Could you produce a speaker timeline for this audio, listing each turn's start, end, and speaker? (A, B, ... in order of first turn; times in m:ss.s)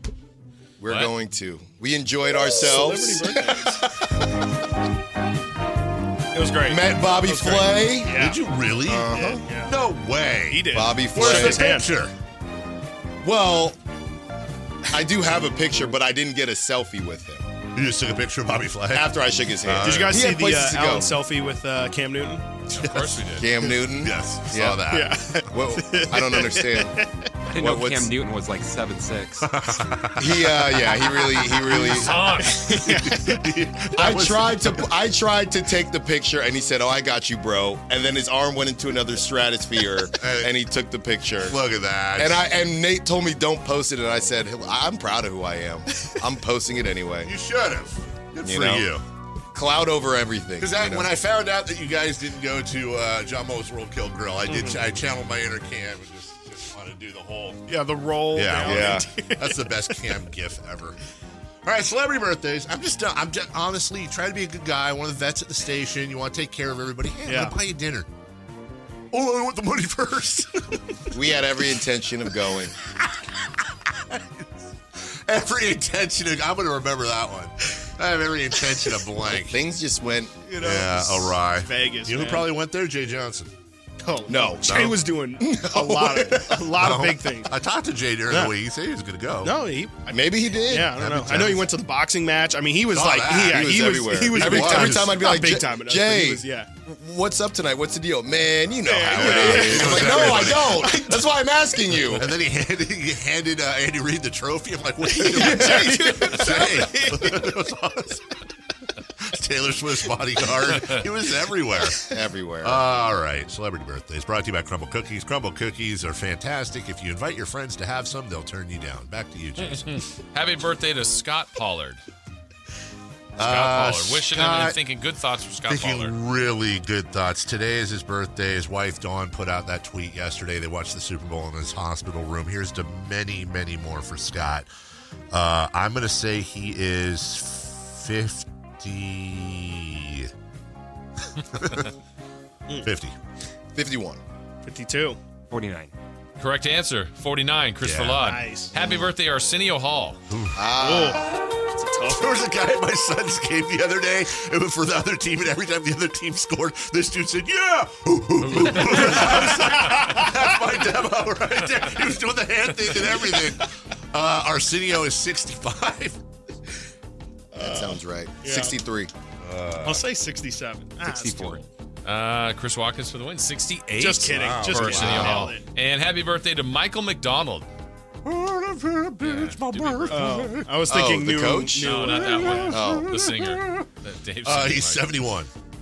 0:00.8-0:03.4 A
0:00.8-0:01.1 B
0:02.6-0:03.8 C
0:02.6-0:04.1 D
0:06.3-0:08.4 C
0:06.7-0:08.2 A
0:07.1-0:12.1 D
0:08.8-0:09.4 A
0:09.1-0:09.8 C
0:10.5-0:11.9 C
0:10.7-0:11.7 A
0:13.2-0:13.8 A
0:14.9-0:17.5 A
0:17.7-0:20.2 D
0:18.9-0:21.1 A
0:19.8-0:22.5 C
0:19.8-0:20.1 B
0:22.7-0:23.5 B
0:22.8-0:25.4 D
0:23.4-0:24.8 A
0:24.8-0:27.3 C
0:25.5-0:27.0 A
0:27.5-0:29.5 E
0:27.6-0:28.1 A
0:29.4-0:34.9 D
0:30.2-0:32.2 A
0:31.3-0:33.4 C
0:31.9-0:32.8 B
0:33.9-0:41.6 A
0:40.1-0:40.5 D
0:41.4-0:42.4 D
0:42.2-0:47.3 A
0:47.2-0:49.0 D
0:48.4-0:48.9 A
0:49.5-0:51.1 A
0:50.6-0:57.7 D
0:54.5-0:54.8 C
0:57.7-1:00.2 C
0:58.3-1:01.0 D
0:58.6-0:59.0 A
1:01.6-1:08.1 D
1:07.2-1:07.6 C
1:09.1-1:11.3 D
1:11.1-1:12.7 A
1:12.9-1:19.6 D
1:19.3-1:20.5 A
1:20.4-1:22.5 C
1:20.6-1:23.5 D
1:24.0-1:27.5 C
1:24.3-1:24.8 A
1:24.6-1:25.0 D
1:25.4-1:26.5 A
1:25.7-1:29.6 D
1:28.3-1:28.5 C
1:29.4-1:36.7 C
1:30.1-1:30.9 A
1:30.9-1:31.7 D
1:32.9-1:35.4 D
1:33.4-1:42.3 A
1:38.8-1:41.5 C
1:39.0-1:41.2 D
1:42.1-1:48.4 D
1:45.1-1:47.5 C
1:45.5-1:46.0 A
1:49.2-2:00.0 D
1:50.7-1:51.0 B
1:52.0-1:52.8 A
1:59.6-2:02.0 B
2:03.4-2:04.8 D
2:03.4-2:06.2 B
2:05.7-2:14.7 D
2:15.3-2:20.3 D
2:21.5-2:21.9 D
2:22.8-2:23.2 D
2:23.7-2:24.2 A
2:24.6-2:25.2 C
2:25.5-2:25.9 E
2:26.4-2:30.2 B
2:27.8-2:28.3 D
2:28.2-2:28.8 C
2:30.3-2:30.7 D
2:30.6-2:31.3 A
2:30.8-2:32.5 C
2:32.1-2:46.2 D
2:38.4-2:39.9 B
2:39.1-2:40.5 C
2:47.5-2:47.9 C
2:47.6-2:48.0 D
2:47.6-2:49.1 A
2:48.4-2:48.8 C
2:49.4-2:50.0 D
2:49.8-2:51.6 C
2:51.0-2:51.6 E
2:52.0-2:57.7 B
2:54.0-2:55.6 C
2:54.2-2:55.4 D
2:58.2-3:00.8 D
2:59.2-3:00.3 B
3:00.1-3:02.8 C
3:00.9-3:02.0 A
3:01.8-3:05.1 B
3:02.0-3:03.9 D
3:02.7-3:03.1 A
3:04.4-3:05.5 D